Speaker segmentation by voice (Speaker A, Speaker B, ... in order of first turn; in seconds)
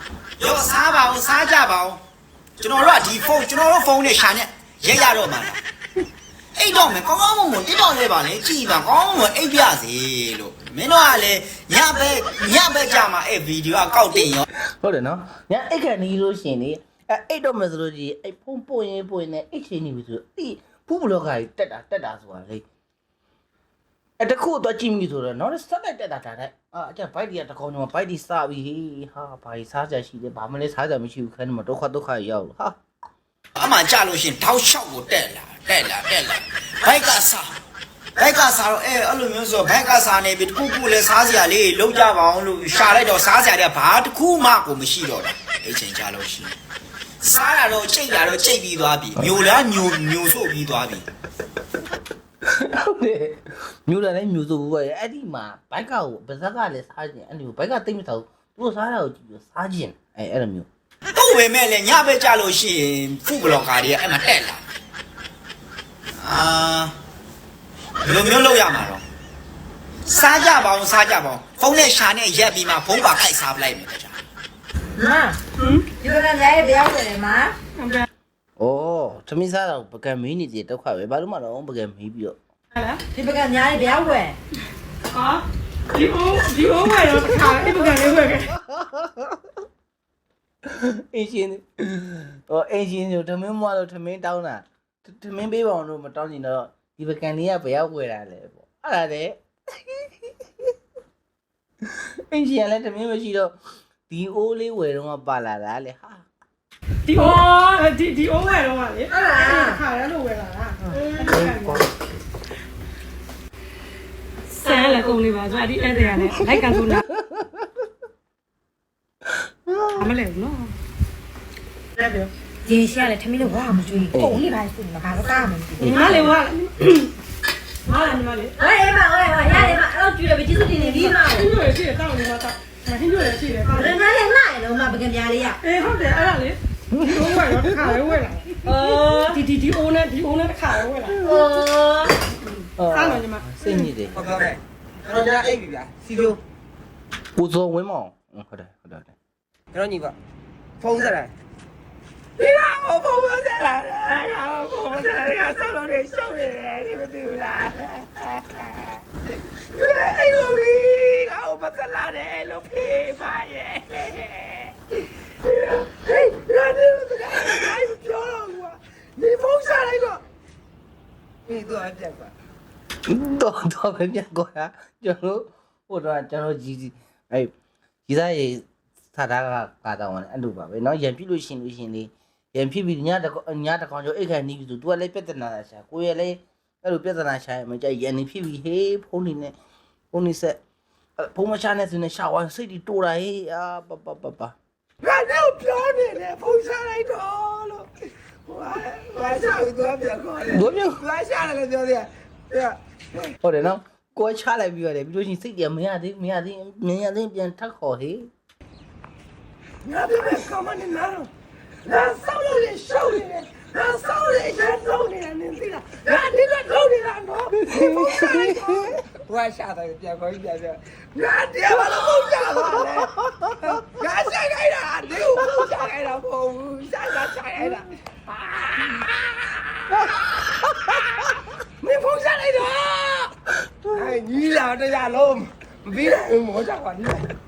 Speaker A: 0.4-2.0, 2.6-5.6, 6.5-14.4, 33.6-37.6, 38.2-46.5, 47.2-51.1, 61.1-64.6, 66.2-66.9, 68.0-69.0, 70.0-74.2
Speaker B: 14.8-22.6, 24.2-32.8, 52.5-60.7, 78.6-82.4, 88.6-89.4, 90.6-99.4, 101.9-103.5, 104.1-106.2, 111.3-111.9, 116.7-117.7, 119.7-120.1, 124.1-124.5, 125.8-126.3, 136.9-138.0, 141.1-141.5, 142.8-144.3, 147.3-149.2, 173.1-177.5, 178.1-189.5, 190.1-190.6, 191.2-194.5, 200.5-201.0, 203.4-208.3, 217.7-218.9, 230.0-231.1, 233.8-234.2
Speaker C: 75.0-75.4, 76.0-77.5, 83.1-84.4, 109.1-109.8, 122.7-126.2, 128.6-131.5, 133.7-135.6, 138.6-139.4, 141.2-142.2
Speaker D: 75.6-75.8, 77.8-78.0, 82.7-83.0, 85.1-88.6, 107.0-111.8, 114.5-117.1, 120.0-120.7, 122.0-122.3, 125.8-127.1, 127.8-128.6, 130.8-134.0, 135.6-141.2, 142.8-143.9
Speaker E: 144.2-146.4, 149.7-150.1, 150.8-151.3, 152.4-159.0, 159.7-170.2, 171.5-172.3, 195.0-203.2, 209.8-211.3, 211.8-229.8, 231.8-233.3, 233.9-237.3